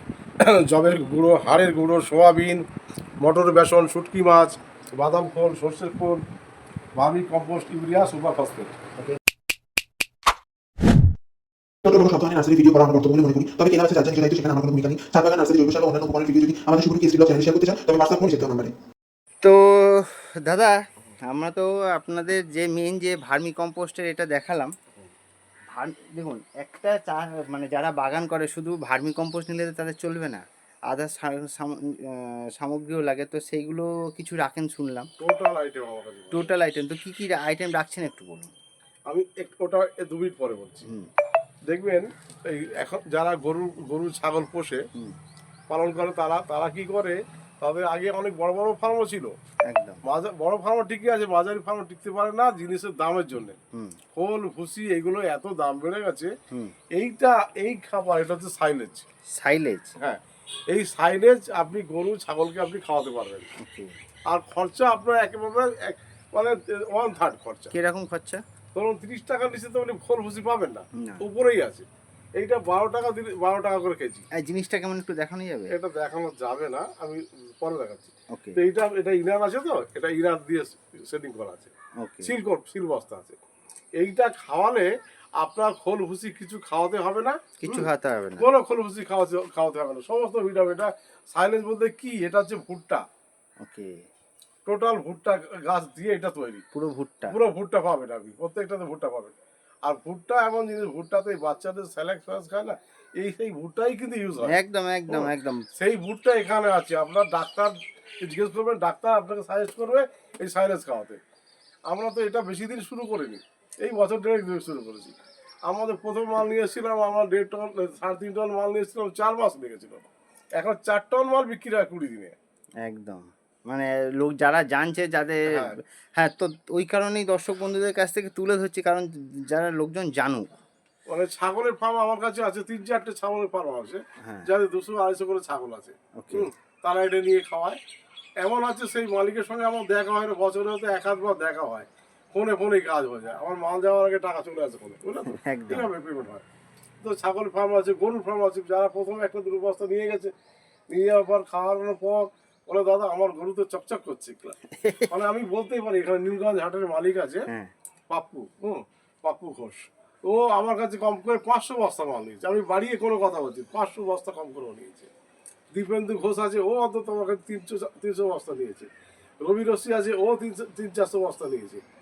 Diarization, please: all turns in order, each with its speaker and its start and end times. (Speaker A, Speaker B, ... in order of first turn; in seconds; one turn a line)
Speaker A: 0.4-2.6
Speaker A: 3.2-6.2
Speaker A: 7.0-8.8
Speaker B: 11.8-18.7
Speaker C: 19.4-24.7
Speaker C: 25.7-35.1
Speaker A: 35.2-36.5
Speaker C: 36.3-38.5
Speaker A: 39.1-40.9
Speaker A: 41.7-44.8
Speaker A: 45.7-49.3
Speaker C: 49.7-50.0
Speaker A: 50.0-53.6
Speaker C: 53.7-54.0
Speaker A: 54.1-56.3
Speaker A: 57.0-59.1
Speaker C: 59.4-60.0
Speaker A: 60.0-63.5
Speaker C: 63.6-64.0
Speaker A: 64.3-67.7
Speaker C: 67.7-68.4
Speaker A: 68.8-71.9
Speaker A: 72.4-74.3
Speaker C: 74.4-75.7
Speaker A: 75.7-81.7
Speaker C: 78.3-78.6
Speaker C: 82.0-82.3
Speaker A: 82.2-83.4
Speaker A: 84.0-87.9
Speaker C: 87.6-88.5
Speaker A: 88.4-93.0
Speaker C: 93.6-94.0
Speaker A: 94.7-96.6
Speaker C: 96.7-97.4
Speaker A: 97.3-104.5
Speaker C: 104.4-105.7
Speaker A: 105.1-111.2
Speaker A: 111.9-115.2
Speaker A: 115.7-122.4
Speaker C: 122.8-130.6
Speaker A: 125.5-125.8
Speaker A: 131.1-137.8
Speaker C: 134.2-134.5
Speaker C: 136.2-136.5
Speaker A: 138.4-146.4
Speaker C: 145.3-145.9
Speaker A: 147.0-150.3
Speaker A: 150.9-154.6
Speaker C: 154.7-155.1
Speaker A: 155.1-157.5
Speaker A: 158.1-165.1
Speaker A: 165.7-168.9
Speaker A: 169.4-171.8